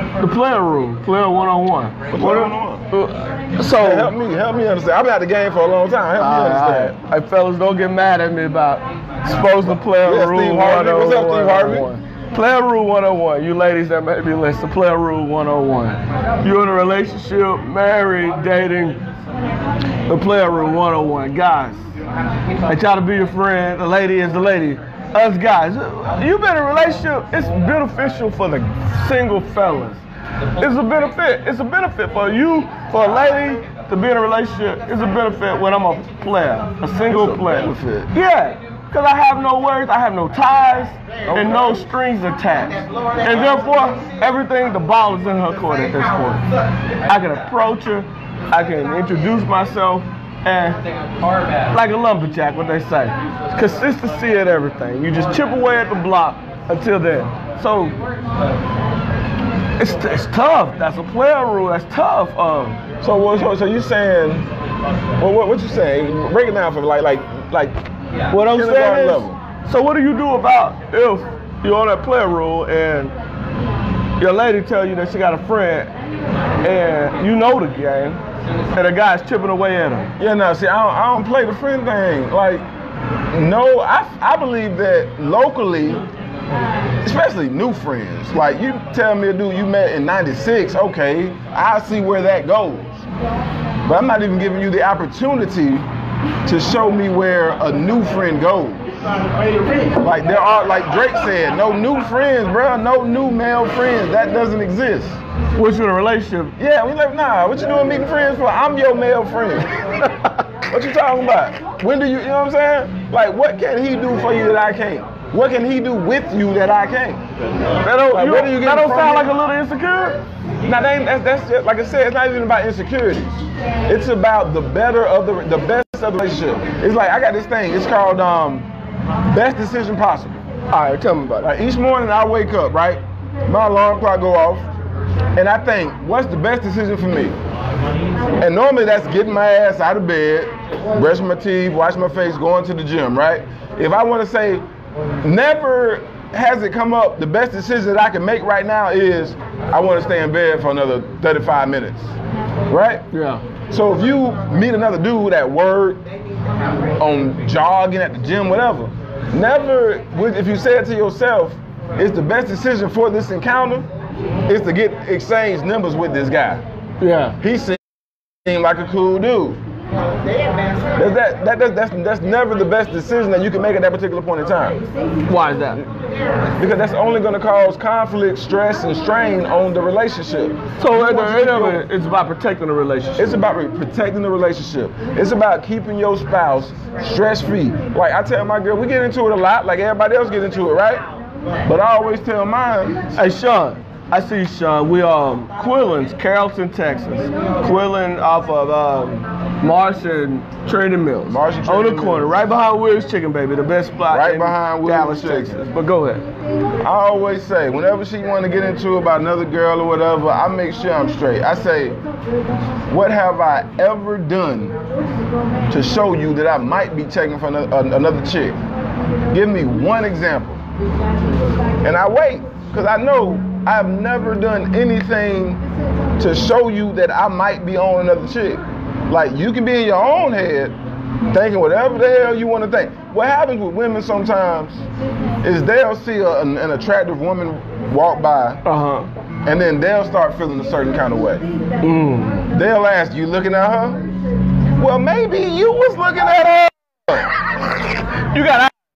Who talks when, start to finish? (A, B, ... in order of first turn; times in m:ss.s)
0:00.2-0:04.1 A
0:02.1-0:02.8 B
0:03.7-0:06.9 B
0:06.2-0:19.0 A
0:10.0-0:11.9 B
0:20.1-0:21.8 A
0:22.7-0:30.0 A
0:30.6-0:46.4 A
0:37.1-0:38.1 B
0:41.3-0:41.8 B
0:47.0-0:50.8 A
0:51.7-0:58.0 A
0:59.8-1:02.8 A
1:03.0-1:04.5 B
1:05.2-1:07.8 B
1:08.3-1:13.1 A
1:08.4-1:09.4 B
1:14.2-1:15.9 A
1:16.6-1:18.2 A
1:18.7-1:20.1 A
1:20.2-1:22.6 B
1:23.3-1:26.0 B
1:27.0-1:33.0 B
1:33.8-1:35.8 B
1:36.4-1:38.8 B
1:40.0-1:45.2 B
1:45.6-1:46.5 A
1:46.6-1:49.8 B
1:50.0-1:50.3 A
1:50.7-1:57.2 B
1:57.8-2:00.2 A
1:58.0-1:59.3 B
2:00.6-2:08.7 B
2:09.3-2:10.4 B
2:10.7-2:11.5 A
2:11.4-2:14.7 B
2:15.3-2:17.4 B
2:18.4-2:24.6 B
2:25.2-2:32.1 B
2:32.7-2:33.0 B
2:33.1-2:33.4 A
2:33.7-2:36.0 B
2:37.0-2:43.9 B
2:44.5-2:46.6 B
2:47.0-2:47.4 A
2:47.4-2:47.8 B
2:48.4-2:49.6 B
2:51.0-2:54.8 B
2:55.3-2:55.8 A
2:56.6-3:01.8 B
3:00.8-3:03.3 A
3:03.2-3:11.0 B
3:11.6-3:13.0 B
3:13.1-3:26.2 A
3:21.2-3:22.4 B
3:24.1-3:25.6 B
3:26.8-3:32.0 B
3:32.9-3:34.8 B
3:35.7-3:38.6 B
3:39.3-3:40.6 B
3:41.8-3:45.6 B
3:46.2-3:50.8 B
3:51.3-3:54.8 B
3:55.4-3:58.6 B
3:58.6-3:59.1 A
3:59.4-4:01.4 B
4:01.8-4:02.5 A
4:02.5-4:04.0 B
4:04.8-4:07.3 B
4:08.2-4:08.7 A